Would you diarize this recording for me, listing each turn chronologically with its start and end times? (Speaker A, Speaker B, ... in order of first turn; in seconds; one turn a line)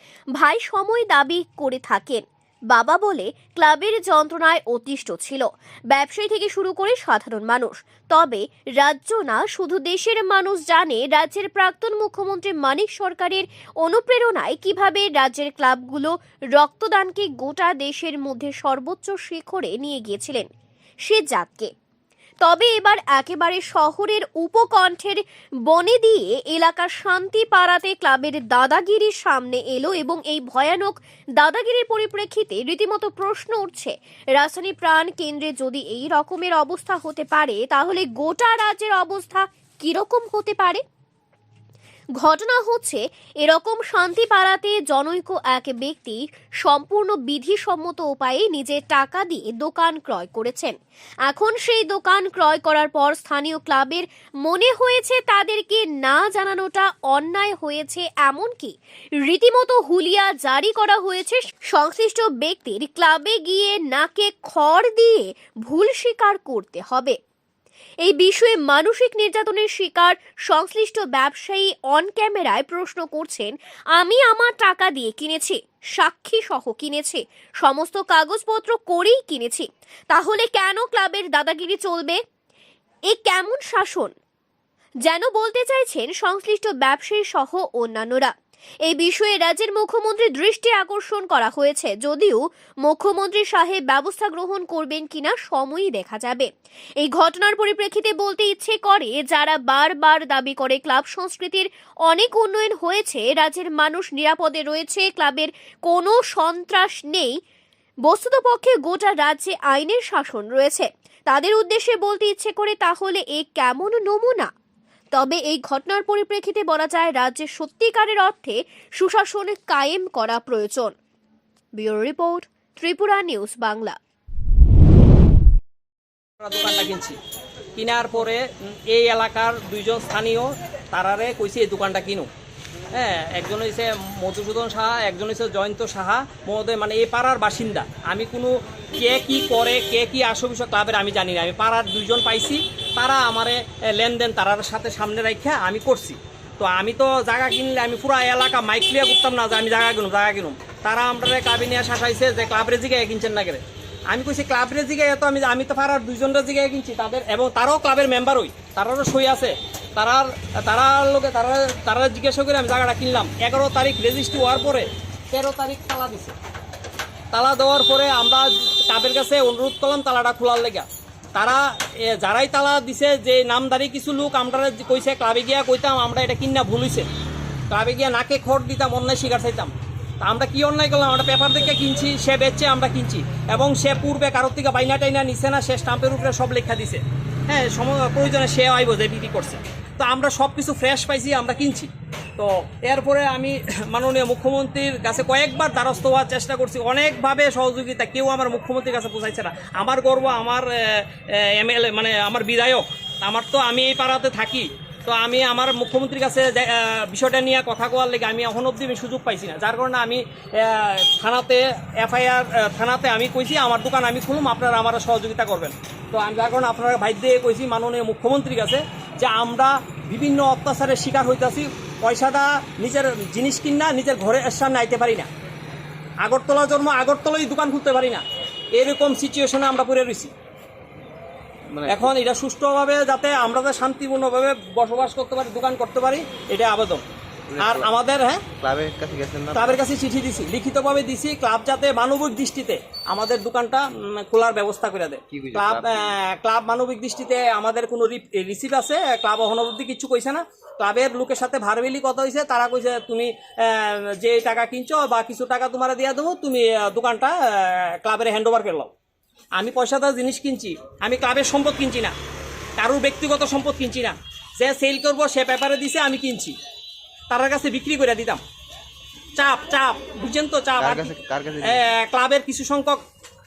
Speaker A: 0.4-20.5
Speaker A: 21.1-21.7
Speaker A: 22.4-40.8
Speaker A: 42.2-50.7
Speaker A: 51.3-67.2
Speaker A: 68.0-82.2
Speaker A: 83.1-84.2
Speaker A: 85.1-88.3
Speaker A: 88.9-96.5
Speaker A: 97.0-107.4
Speaker A: 108.1-114.5
Speaker A: 115.1-120.9
Speaker A: 121.8-124.0
Speaker B: 126.4-127.2
Speaker B: 127.8-132.3
Speaker B: 132.9-166.3
Speaker B: 167.3-177.1
Speaker B: 177.7-225.3
Speaker B: 226.2-228.2
Speaker B: 228.8-230.3
Speaker C: 231.7-232.1
Speaker B: 231.9-237.0
Speaker C: 237.5-237.9
Speaker B: 237.6-238.5
Speaker C: 238.6-239.8
Speaker B: 239.5-258.9
Speaker C: 245.3-246.2
Speaker B: 259.6-262.1
Speaker B: 262.8-266.6
Speaker B: 267.3-268.4
Speaker B: 269.4-273.0
Speaker C: 270.8-271.8